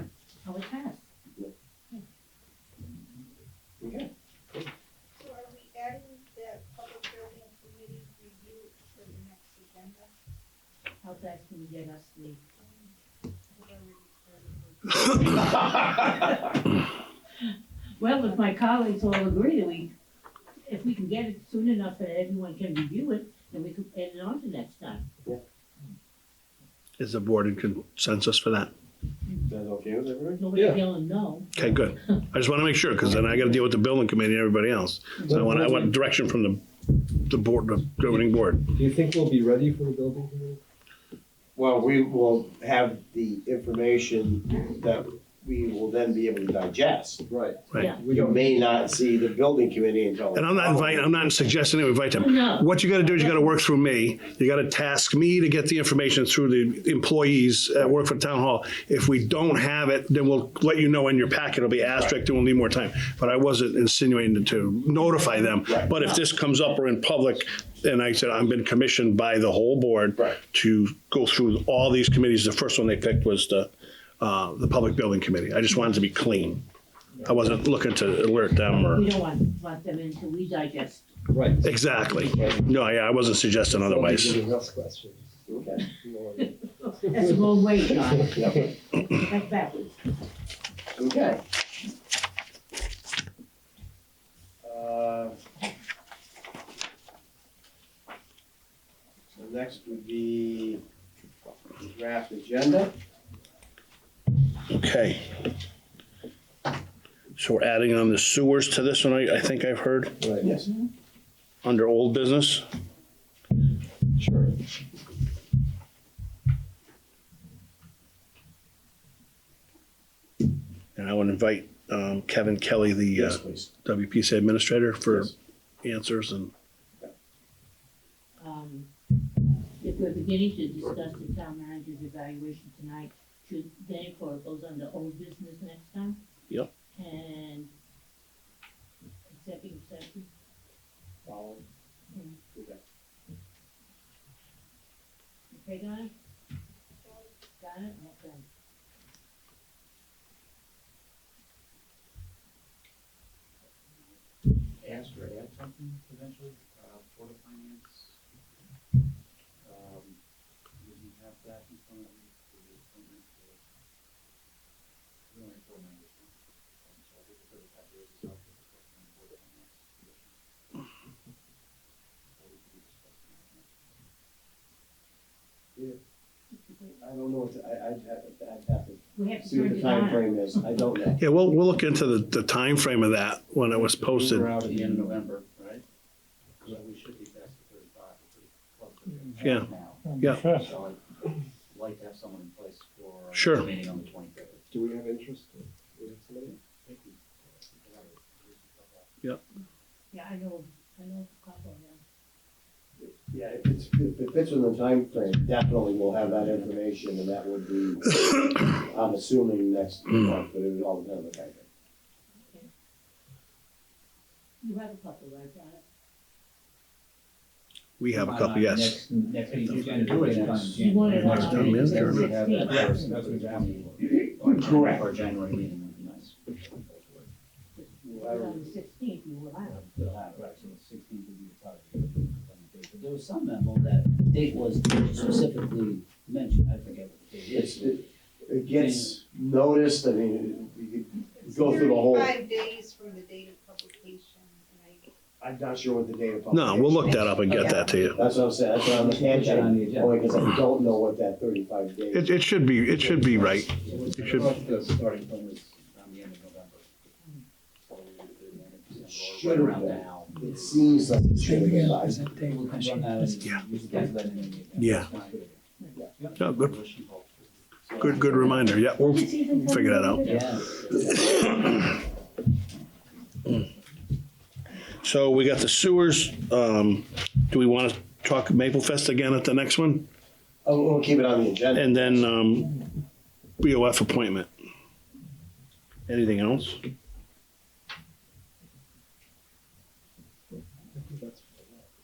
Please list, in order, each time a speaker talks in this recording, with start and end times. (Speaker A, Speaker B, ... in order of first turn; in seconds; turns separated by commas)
Speaker A: 0.4-1.1, Speaker B: 3.8-4.1, Speaker C: 5.2-10.1, Speaker A: 11.0-12.4, Speaker C: 13.5-15.6, Speaker A: 18.0-19.9, Speaker A: 20.6-25.1, Speaker D: 27.0-28.7, Speaker B: 29.5-30.4, Speaker A: 30.4-32.2, Speaker E: 30.5-30.8, Speaker D: 31.5-38.7, Speaker E: 35.2-35.9, Speaker E: 38.7-40.6, Speaker B: 41.5-47.3, Speaker E: 47.3-48.6, Speaker D: 47.7-48.0, Speaker B: 48.0-51.0, Speaker D: 50.3-76.6, Speaker A: 52.1-53.5, Speaker D: 77.2-79.1, Speaker A: 78.7-81.1, Speaker E: 81.3-81.7, Speaker D: 81.6-84.4, Speaker E: 83.6-87.5, Speaker B: 85.5-85.8, Speaker A: 86.4-90.0, Speaker E: 88.1-88.5, Speaker B: 90.9-91.4, Speaker B: 94.6-95.3, Speaker B: 99.3-100.8, Speaker B: 101.8-102.9, Speaker D: 104.7-105.4, Speaker D: 107.4-110.3, Speaker E: 110.2-110.5, Speaker B: 110.4-110.7, Speaker D: 111.6-112.6, Speaker E: 114.2-114.5, Speaker D: 121.0-126.5, Speaker B: 123.1-123.7, Speaker A: 128.4-128.9, Speaker A: 129.8-136.2, Speaker A: 136.9-137.7, Speaker A: 139.2-140.3, Speaker E: 141.2-141.6, Speaker A: 142.1-142.4, Speaker A: 145.5-146.1, Speaker A: 147.6-148.4, Speaker F: 153.6-154.2, Speaker F: 154.8-158.2, Speaker F: 159.6-160.2, Speaker F: 160.8-163.6, Speaker F: 165.3-170.8, Speaker F: 172.3-173.9, Speaker A: 176.5-177.0, Speaker B: 177.0-181.2, Speaker A: 179.1-180.5, Speaker D: 181.2-184.6, Speaker F: 183.7-185.8, Speaker F: 186.6-191.0, Speaker D: 189.4-190.5, Speaker F: 191.7-194.7, Speaker D: 193.3-193.7, Speaker E: 194.7-196.6, Speaker F: 196.4-199.1, Speaker A: 200.1-202.0, Speaker B: 203.0-211.6, Speaker A: 214.6-215.8, Speaker D: 218.0-219.0, Speaker F: 218.1-227.3, Speaker E: 219.9-220.6, Speaker A: 220.7-222.9, Speaker D: 221.0-222.3, Speaker E: 221.2-221.7, Speaker E: 222.7-223.8, Speaker A: 227.7-229.8, Speaker B: 228.0-228.7, Speaker F: 229.7-238.1, Speaker B: 237.5-242.4, Speaker F: 238.7-239.2, Speaker C: 241.4-245.0, Speaker B: 245.4-252.3, Speaker D: 246.5-248.2, Speaker C: 247.1-248.0, Speaker F: 248.8-251.0, Speaker D: 252.1-254.5, Speaker B: 253.0-253.4, Speaker F: 253.8-257.0, Speaker F: 257.8-265.6, Speaker B: 259.0-262.3, Speaker E: 261.4-263.1, Speaker D: 264.8-265.1, Speaker F: 266.1-268.8, Speaker D: 266.4-266.8, Speaker D: 267.9-270.4, Speaker A: 269.0-270.6, Speaker F: 270.2-271.5, Speaker D: 271.1-271.8, Speaker D: 275.0-280.1, Speaker B: 280.6-282.2, Speaker D: 281.8-282.8, Speaker D: 283.6-284.5, Speaker D: 286.1-286.8, Speaker E: 290.9-291.8